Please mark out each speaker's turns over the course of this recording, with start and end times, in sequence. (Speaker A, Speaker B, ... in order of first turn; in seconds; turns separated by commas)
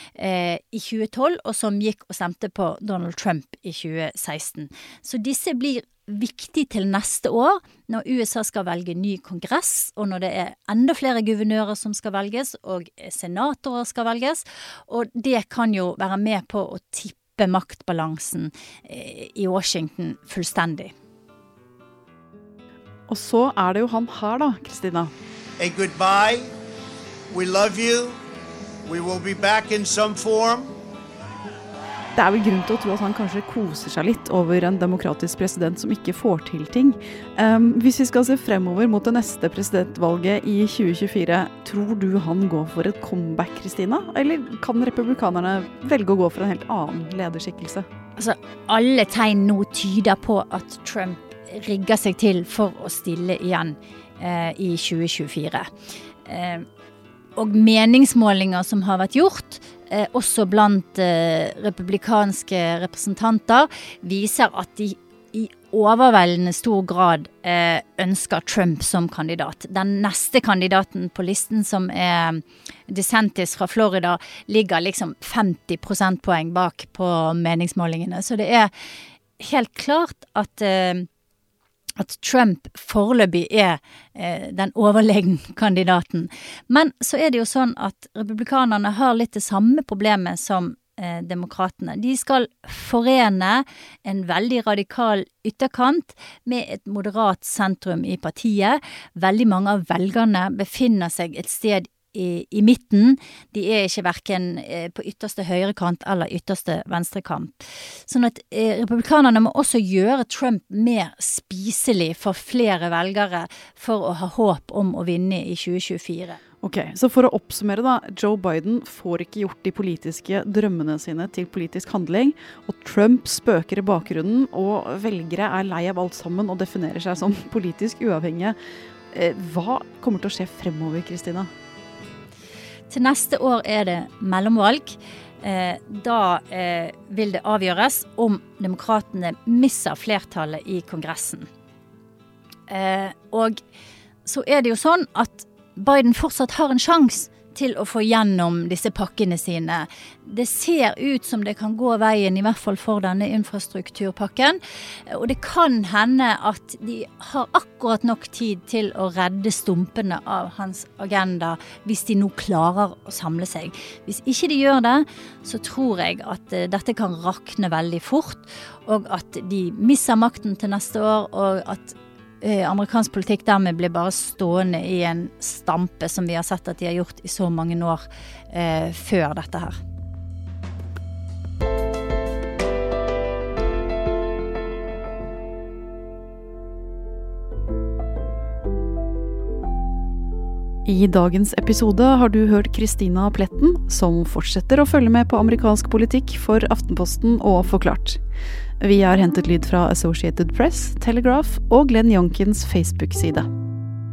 Speaker A: 0.2-20.9, Speaker B: 23.1-25.1, Speaker C: 25.6-26.5, Speaker C: 27.3-28.2, Speaker C: 28.9-30.7, Speaker B: 32.2-47.9, Speaker A: 48.2-55.7, Speaker A: 56.3-56.7, Speaker A: 57.4-78.7, Speaker A: 79.4-81.1, Speaker A: 82.0-116.4, Speaker B: 116.6-128.6, Speaker B: 129.1-131.5, Speaker A: 132.9-141.5, Speaker A: 142.7-143.6, Speaker A: 144.2-179.8, Speaker B: 190.9-198.2, Speaker B: 198.8-203.5